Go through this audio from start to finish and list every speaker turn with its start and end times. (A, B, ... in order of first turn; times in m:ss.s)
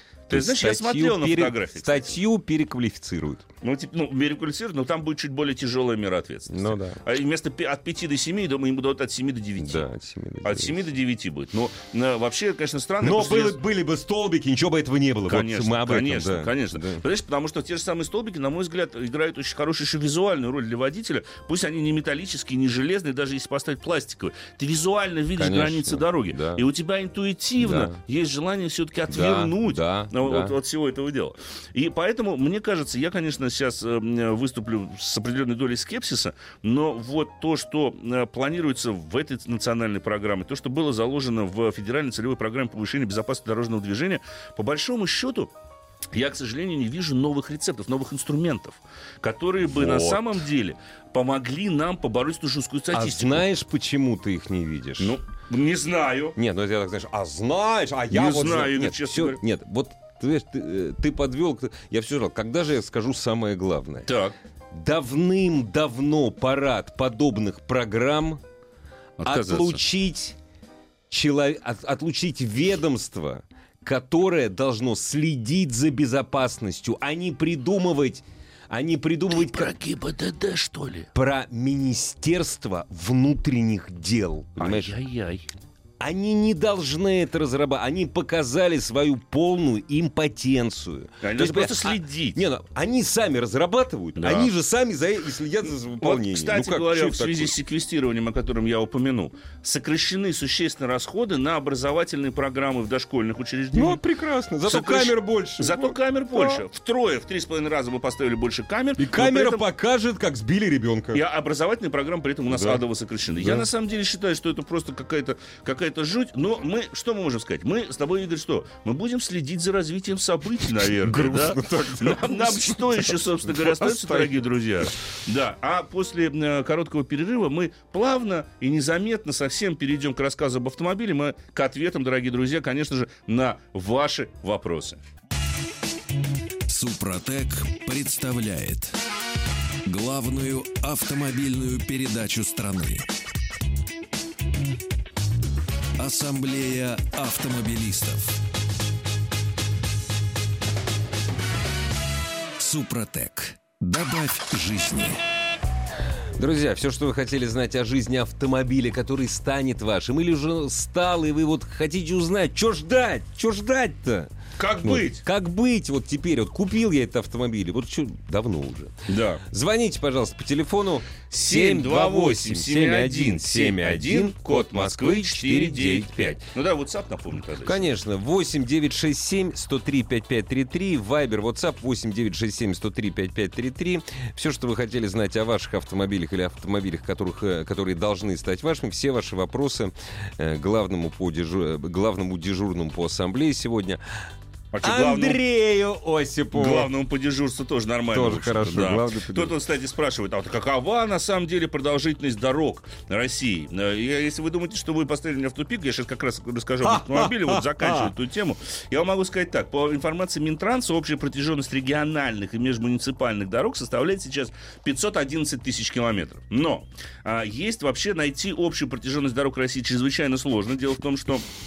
0:00.3-0:02.2 A
0:00.3-0:03.4 B
0:03.6-0:09.9 A
0:06.5-0:07.0 B
0:09.6-0:10.9 B
0:10.4-0:13.6 A
0:13.0-0:17.0 B
0:15.3-0:45.5 A
0:25.4-0:26.6 B
0:27.6-0:28.0 B
0:29.1-0:30.6 B
0:46.1-0:53.5 A
0:49.6-0:50.4 B
0:52.9-0:55.2 B
0:55.0-0:56.4 A
0:56.4-1:04.1 B
0:58.1-0:59.4 A
1:04.1-1:04.3 A
1:04.7-1:08.4 B
1:09.2-1:09.8 A
1:09.2-1:10.4 B
1:11.1-1:19.7 B
1:19.3-1:21.1 A
1:21.1-1:25.0 B
1:24.6-1:25.5 A
1:26.0-1:37.6 B
1:31.2-1:32.4 A
1:34.2-1:34.5 A
1:36.0-1:44.0 A
1:43.7-1:46.6 B
1:44.6-1:49.6 A
1:49.0-1:51.2 B
1:51.1-2:15.0 A
1:52.5-1:52.8 B
1:53.4-1:53.7 B
2:00.8-2:04.9 B
2:16.7-2:19.0 C
2:19.9-2:23.1 C
2:26.0-2:28.4 C
2:32.6-2:35.2 C
2:36.4-2:56.4 B
2:44.6-2:45.2 A
2:49.1-2:49.4 A
2:51.3-2:57.9 A
2:57.6-3:14.0 B
3:14.7-3:15.4 A
3:14.8-3:16.9 B
3:16.5-3:41.4 A
3:18.1-3:19.5 B
3:26.8-3:28.1 B